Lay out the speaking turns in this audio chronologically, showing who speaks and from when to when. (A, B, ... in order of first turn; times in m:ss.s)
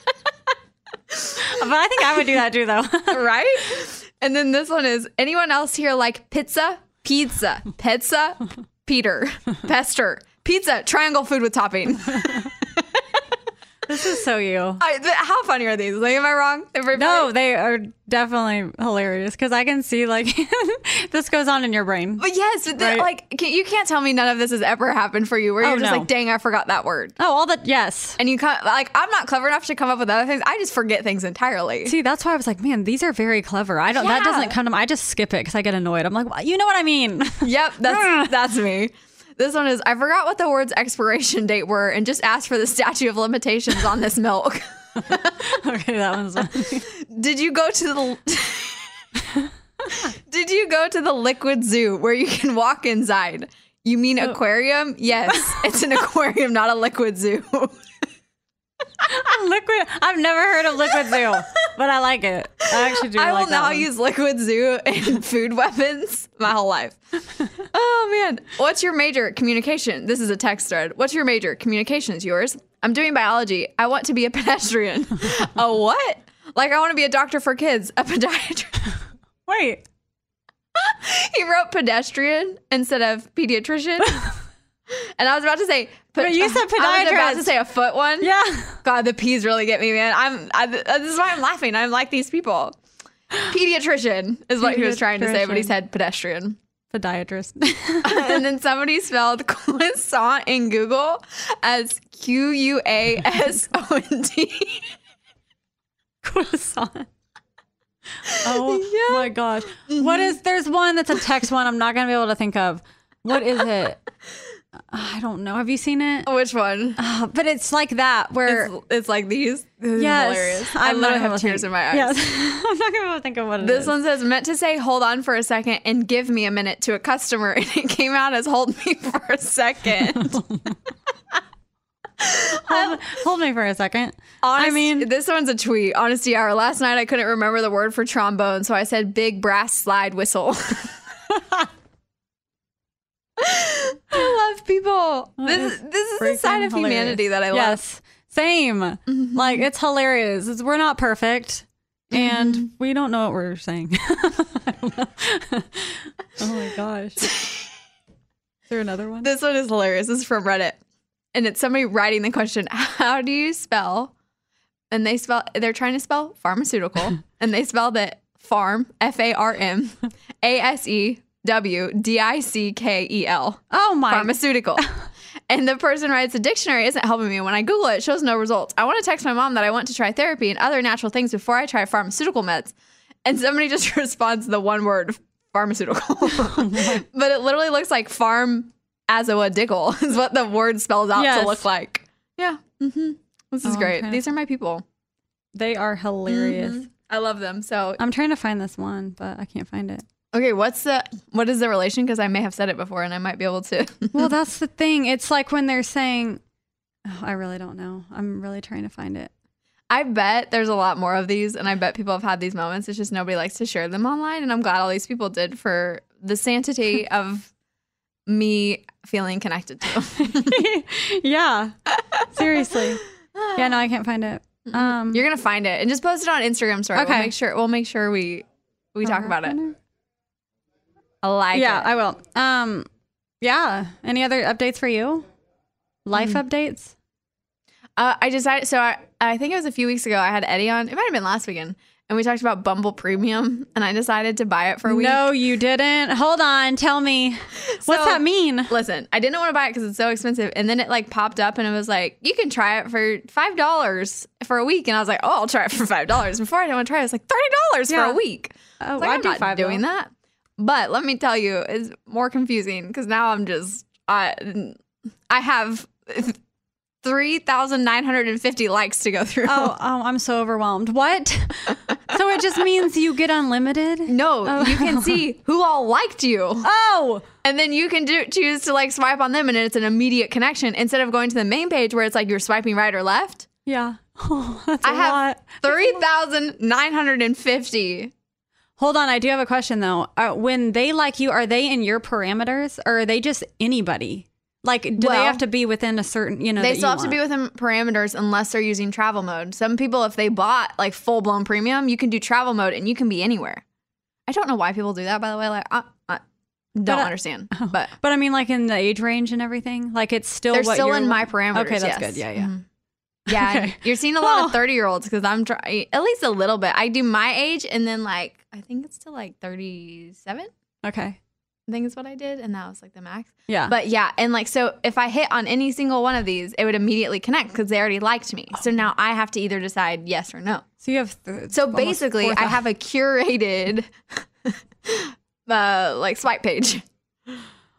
0:01.1-0:01.4 A
0:01.5-0:03.2 B
0:03.1-0:12.8 A
0:13.9-0:14.8 B
0:14.8-0:17.3 A
0:17.0-0:23.1 B
0:22.2-0:27.2 A
0:25.6-0:26.1 B
0:27.2-0:28.2 B
0:28.2-0:31.9 A
0:31.8-0:38.3 B
0:33.9-0:34.6 A
0:37.4-0:45.3 A
0:45.5-0:46.9 B
0:47.1-0:48.9 A
0:50.3-0:57.7 A
0:55.3-0:55.6 B
0:59.1-1:03.9 B
1:03.1-1:07.0 A
1:07.7-1:18.8 A
1:19.5-1:19.8 B
1:20.8-1:24.3 A
1:25.2-1:28.3 A
1:26.2-1:27.5 B
1:28.2-1:28.8 B
1:28.8-1:32.8 A
1:33.5-1:36.6 A
1:34.6-1:35.7 B
1:36.9-1:38.4 B
1:38.0-1:44.9 A
1:46.2-1:47.1 B
1:48.3-1:54.0 B
1:48.6-1:49.3 A
1:49.9-1:50.4 A
1:54.9-1:56.3 B
1:56.3-1:57.0 A
1:57.0-1:58.7 B
1:58.5-2:02.2 A
2:00.0-2:04.0 B
2:03.6-2:10.4 A
2:12.2-2:13.0 A
2:12.7-2:15.1 B
2:14.4-2:20.9 A
2:23.4-2:27.8 A
2:25.4-2:37.3 B
2:29.1-2:29.6 A
2:32.1-2:32.7 A
2:37.2-2:37.6 A
2:38.7-2:39.3 B
2:39.2-2:40.8 A
2:41.3-2:44.1 A
2:44.9-2:54.8 A
2:53.7-2:54.9 B
2:55.5-3:02.7 A
3:03.2-3:14.8 A
3:06.4-3:07.0 B
3:11.1-3:11.7 B
3:13.6-3:14.2 B
3:15.6-3:16.8 B
3:16.3-3:18.0 A
3:18.0-3:20.0 B
3:20.3-3:24.3 A
3:24.1-3:26.4 B
3:27.1-3:29.3 B
3:29.9-3:37.5 A
3:38.3-3:40.6 A
3:40.2-3:41.7 B
3:42.3-3:43.0 B
3:43.4-3:43.8 A
3:43.6-3:45.2 B
3:44.7-3:49.6 A
3:47.0-3:47.3 B
3:49.0-3:49.8 B
3:51.2-3:51.9 A
3:51.5-3:52.9 B
3:53.4-3:55.3 B
3:56.1-3:56.9 B
3:56.2-3:56.4 A
3:58.0-4:05.2 A
4:04.9-4:08.7 B
4:07.9-4:24.8 A
4:17.9-4:18.2 B
4:18.8-4:19.8 B
4:25.3-4:26.4 A
4:27.0-4:29.7 A
4:29.5-4:35.2 B
4:34.1-4:36.7 A
4:36.6-4:37.2 B
4:37.4-4:43.5 A
4:43.7-4:46.0 B
4:44.8-4:48.1 A
4:48.8-4:57.2 B
4:55.0-4:55.4 A
4:56.6-5:03.6 A
5:04.3-5:06.2 A
5:06.8-5:07.9 A
5:06.9-5:12.5 B
5:10.5-5:12.6 A
5:13.3-5:14.6 B
5:13.3-5:20.5 A
5:20.8-5:21.2 B
5:21.7-5:30.6 A
5:23.5-5:23.8 B
5:30.8-5:32.6 B
5:31.5-5:33.9 A
5:34.5-5:36.8 A